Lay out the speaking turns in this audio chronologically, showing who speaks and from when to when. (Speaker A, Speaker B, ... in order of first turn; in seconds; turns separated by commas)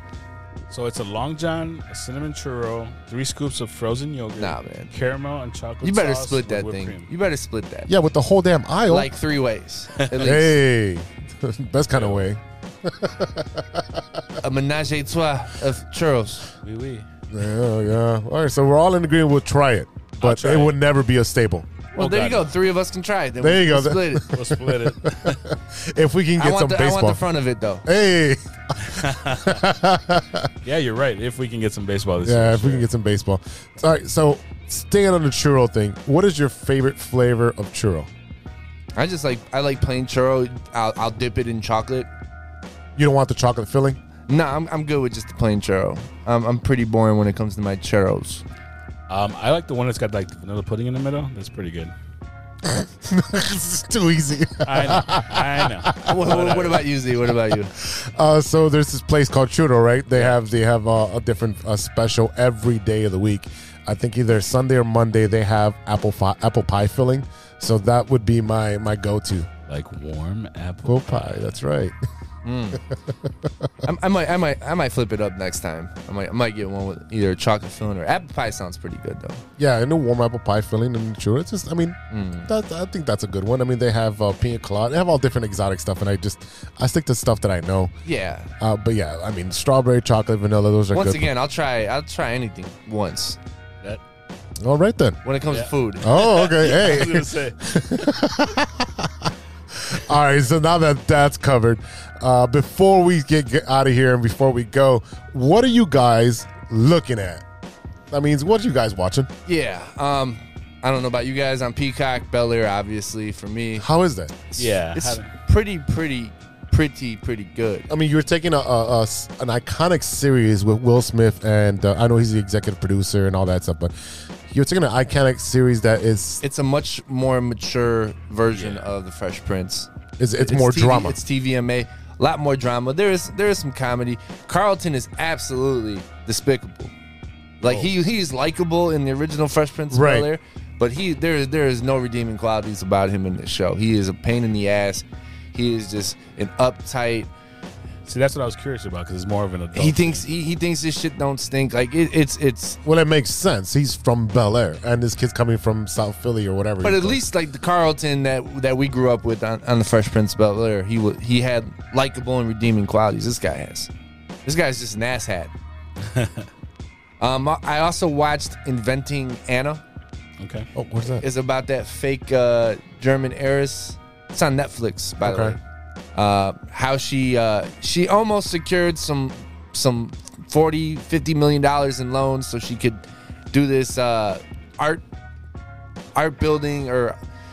Speaker A: 0.7-7.1, Speaker B: 4.4-4.9, Speaker B: 5.8-7.9, Speaker C: 7.9-9.1, Speaker B: 8.9-10.6, Speaker C: 10.1-14.2, Speaker A: 11.9-12.2, Speaker B: 14.4-16.4, Speaker A: 16.6-17.1, Speaker C: 17.3-21.7, Speaker A: 20.2-20.8, Speaker B: 21.9-24.3, Speaker A: 21.9-22.5, Speaker C: 23.4-27.2, Speaker A: 24.3-25.4, Speaker B: 26.4-27.9, Speaker C: 27.9-30.5, Speaker A: 28.8-29.6, Speaker A: 30.6-32.9, Speaker C: 32.2-38.1, Speaker B: 39.0-42.1, Speaker C: 43.0-44.0, Speaker B: 44.3-48.4, Speaker A: 49.1-51.9, Speaker C: 52.6-56.4, Speaker A: 54.6-56.9, Speaker B: 56.0-57.7, Speaker C: 57.8-69.5, Speaker A: 69.7-71.5, Speaker C: 70.8-72.0, Speaker B: 72.4-72.8, Speaker B: 73.8-79.4, Speaker C: 79.6-87.9, Speaker B: 82.1-82.5, Speaker B: 88.0-88.5, Speaker C: 88.6-91.3, Speaker B: 90.9-93.4, Speaker C: 94.6-95.2, Speaker B: 95.2-96.1, Speaker A: 95.5-98.1, Speaker C: 96.0-107.4, Speaker C: 108.1-109.3, Speaker B: 109.5-113.8, Speaker C: 113.8-114.3, Speaker A: 114.5-115.3, Speaker B: 114.6-117.9, Speaker C: 117.9-123.9, Speaker C: 124.5-126.4, Speaker B: 126.4-129.9, Speaker A: 128.5-128.8, Speaker C: 130.2-131.2, Speaker B: 130.4-136.9, Speaker B: 137.6-147.3, Speaker C: 139.9-140.3, Speaker A: 148.1-150.3, Speaker B: 149.7-152.8, Speaker C: 152.8-157.2, Speaker B: 156.8-163.9, Speaker B: 164.4-165.5, Speaker A: 166.0-166.5, Speaker B: 167.2-169.8, Speaker A: 170.4-170.7, Speaker C: 170.7-171.2, Speaker B: 171.2-175.6, Speaker C: 175.2-175.6, Speaker B: 176.1-185.0, Speaker B: 186.1-187.2